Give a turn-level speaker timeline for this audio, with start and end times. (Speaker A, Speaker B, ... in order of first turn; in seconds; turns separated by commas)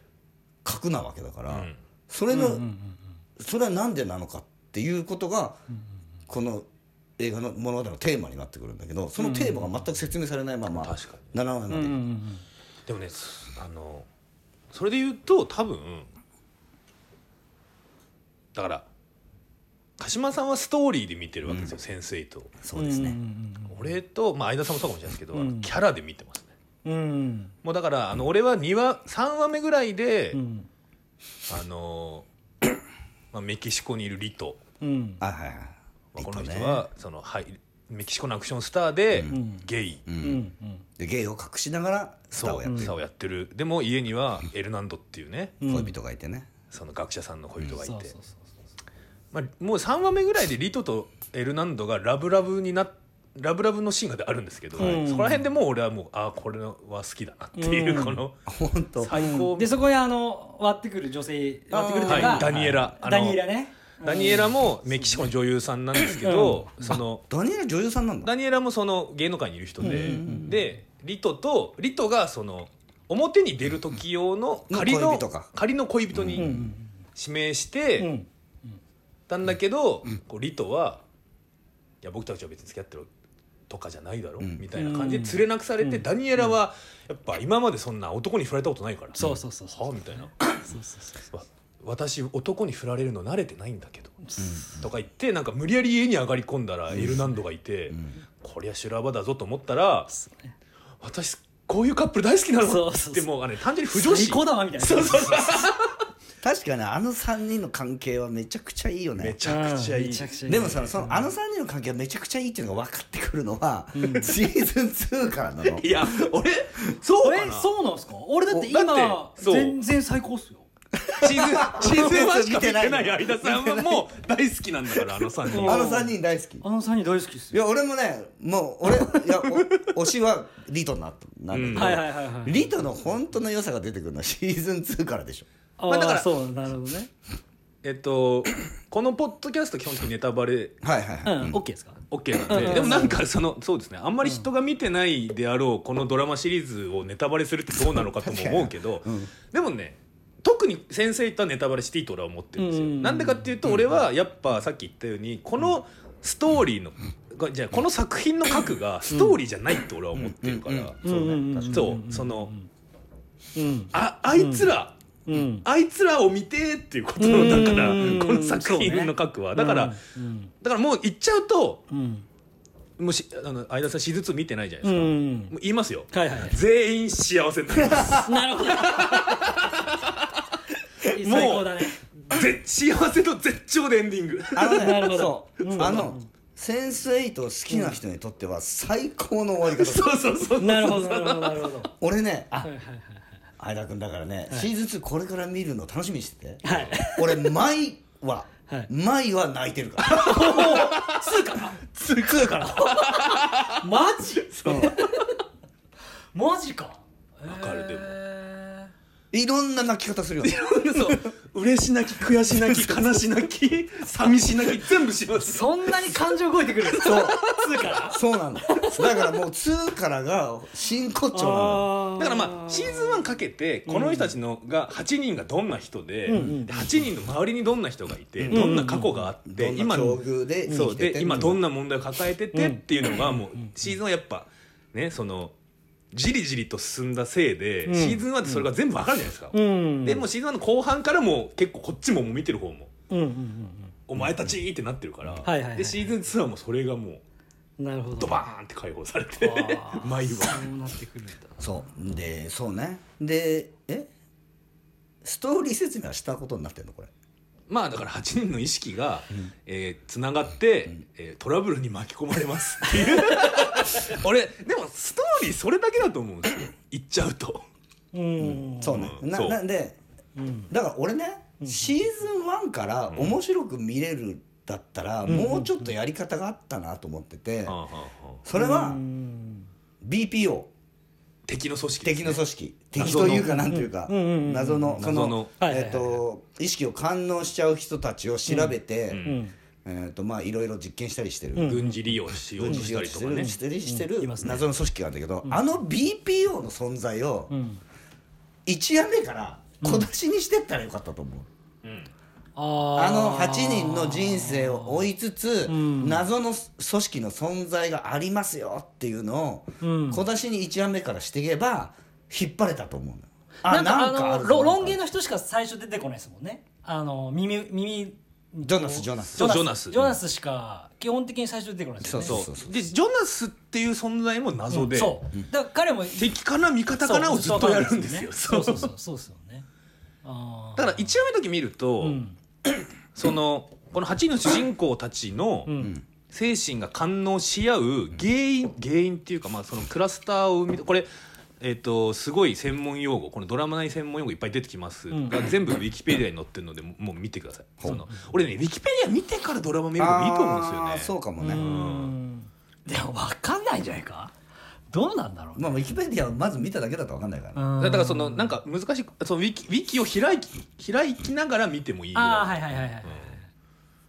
Speaker A: 0.6-2.6, Speaker B: 1.5-1.8, Speaker C: 2.3-3.0, Speaker A: 3.4-5.6, Speaker A: 6.3-6.7, Speaker A: 7.2-11.9, Speaker C: 9.2-9.7, Speaker B: 10.7-11.3, Speaker C: 11.7-12.4, Speaker B: 12.9-14.1, Speaker B: 14.7-16.1, Speaker B: 18.5-18.9, Speaker B: 20.0-22.5, Speaker A: 21.4-21.7, Speaker A: 22.6-23.2, Speaker C: 22.7-23.9, Speaker B: 23.7-26.5, Speaker C: 25.3-25.7, Speaker C: 26.8-27.5, Speaker B: 27.6-30.4, Speaker C: 30.3-30.7, Speaker B: 31.5-32.2, Speaker B: 33.3-34.6, Speaker C: 34.8-35.2, Speaker A: 35.2-36.8, Speaker B: 36.1-40.0, Speaker C: 39.3-39.6, Speaker A: 40.0-40.4, Speaker C: 40.2-40.8, Speaker A: 41.0-42.9, Speaker B: 42.4-45.6, Speaker C: 42.6-42.9, Speaker C: 45.6-45.9, Speaker A: 45.6-46.5, Speaker B: 46.7-48.1, Speaker C: 47.8-48.4, Speaker B: 49.3-58.4, Speaker C: 54.8-55.5, Speaker C: 57.6-58.2, Speaker A: 58.5-59.1, Speaker B: 59.0-59.8, Speaker C: 59.1-65.1, Speaker A: 61.7-62.9, Speaker B: 62.0-63.4, Speaker B: 64.0-67.2, Speaker C: 66.2-67.0, Speaker A: 66.9-68.3, Speaker B: 68.2-76.5, Speaker A: 69.8-70.6, Speaker C: 69.9-70.4, Speaker A: 74.7-75.5, Speaker A: 76.1-76.7, Speaker C: 76.3-76.9, Speaker B: 77.2-78.1, Speaker C: 78.0-78.7, Speaker B: 79.3-81.0, Speaker B: 82.0-83.1, Speaker B: 83.7-90.3, Speaker C: 84.7-86.0, Speaker C: 89.2-91.2, Speaker B: 91.3-100.1, Speaker C: 94.3-94.6, Speaker A: 94.4-94.8, Speaker A: 96.9-97.2, Speaker A: 97.9-98.1, Speaker C: 100.1-100.5, Speaker B: 101.0-105.8, Speaker C: 102.6-103.3, Speaker C: 103.9-105.7, Speaker A: 106.4-109.4, Speaker B: 109.2-110.9, Speaker C: 109.4-111.3, Speaker A: 110.5-115.9, Speaker C: 113.9-114.3, Speaker B: 115.6-117.7, Speaker C: 117.2-120.7, Speaker B: 118.5-119.8, Speaker A: 121.1-124.0, Speaker B: 121.1-126.0, Speaker A: 125.0-126.6, Speaker C: 125.5-127.5, Speaker A: 127.5-135.5, Speaker B: 129.4-129.9, Speaker B: 131.5-132.0, Speaker C: 131.7-132.7, Speaker C: 135.8-137.1, Speaker B: 135.9-136.3, Speaker B: 137.8-140.8, Speaker A: 140.8-141.6, Speaker C: 141.2-143.2, Speaker B: 142.1-161.0, Speaker A: 148.2-149.3, Speaker C: 152.6-153.5, Speaker A: 160.1-161.9, Speaker C: 161.0-162.7, Speaker B: 161.7-162.5, Speaker C: 163.5-164.7, Speaker B: 163.9-170.0, Speaker C: 165.3-165.6, Speaker C: 167.2-170.5, Speaker B: 170.6-171.8, Speaker C: 171.9-172.2, Speaker B: 173.0-180.3, Speaker C: 174.8-175.5, Speaker C: 176.1-176.6, Speaker C: 178.2-179.7, Speaker B: 181.0-185.1, Speaker C: 181.1-182.0, Speaker A: 184.5-190.1, Speaker C: 184.6-186.2, Speaker B: 189.7-191.7, Speaker C: 190.6-191.9, Speaker A: 192.0-192.7, Speaker C: 192.6-193.2, Speaker A: 193.6-200.4, Speaker C: 196.6-197.5, Speaker B: 196.7-196.9, Speaker C: 200.0-205.3, Speaker B: 200.1-203.8, Speaker B: 204.5-205.2, Speaker A: 204.7-204.9, Speaker C: 206.3-208.9, Speaker B: 207.5-208.1, Speaker A: 209.3-211.2, Speaker B: 210.4-216.2, Speaker A: 212.5-213.2, Speaker C: 215.3-219.2, Speaker B: 216.8-217.6, Speaker A: 217.0-217.4, Speaker A: 218.1-221.9, Speaker C: 221.3-223.1, Speaker B: 222.2-235.5, Speaker C: 223.8-224.3, Speaker C: 226.3-226.8, Speaker A: 226.3-226.6, Speaker A: 228.4-228.7, Speaker C: 228.5-229.2, Speaker A: 229.5-231.6, Speaker C: 232.5-232.8, Speaker B: 236.1-242.9, Speaker C: 237.8-238.6, Speaker C: 239.5-240.2, Speaker C: 243.1-243.9, Speaker B: 244.1-247.2, Speaker A: 244.2-244.5, Speaker C: 245.4-246.1, Speaker C: 247.8-248.5, Speaker B: 248.2-250.7, Speaker C: 249.4-251.6, Speaker A: 251.6-254.1, Speaker A: 255.2-257.1, Speaker B: 257.7-267.6, Speaker C: 268.1-269.1, Speaker A: 268.4-270.0, Speaker B: 268.9-269.6, Speaker C: 270.4-270.7, Speaker A: 270.7-277.8, Speaker C: 271.6-271.9, Speaker B: 273.1-273.4, Speaker C: 275.3-275.9, Speaker B: 277.6-278.4, Speaker A: 278.4-279.0, Speaker C: 278.5-279.7, Speaker A: 280.0-280.7, Speaker B: 281.4-282.4, Speaker A: 282.0-289.2, Speaker B: 282.9-283.6, Speaker C: 283.0-286.2, Speaker B: 285.0-285.5, Speaker C: 288.5-289.5, Speaker B: 289.1-289.4, Speaker A: 289.8-291.8, Speaker C: 291.5-292.0, Speaker B: 291.6-293.5, Speaker A: 292.6-297.5, Speaker C: 293.8-294.6, Speaker C: 297.5-297.8, Speaker A: 298.6-301.5, Speaker C: 299.8-300.1, Speaker B: 301.8-302.1, Speaker C: 302.6-305.1, Speaker A: 302.9-315.0, Speaker C: 305.7-306.2, Speaker C: 309.8-310.2, Speaker C: 313.6-322.4, Speaker A: 318.6-319.6, Speaker B: 319.4-320.2, Speaker A: 322.0-322.7, Speaker B: 322.2-325.2, Speaker C: 324.7-326.3, Speaker B: 326.1-328.9, Speaker C: 327.0-329.6, Speaker C: 330.2-331.1, Speaker B: 330.8-332.2, Speaker C: 332.0-332.4, Speaker B: 333.1-335.7, Speaker C: 335.6-336.0, Speaker B: 336.3-341.1, Speaker B: 341.6-352.1, Speaker C: 345.1-345.4, Speaker C: 347.9-348.1, Speaker A: 350.0-351.7, Speaker C: 351.4-354.3, Speaker C: 354.9-355.7, Speaker A: 355.6-357.6, Speaker C: 357.5-358.6, Speaker B: 357.8-363.3, Speaker C: 362.1-363.4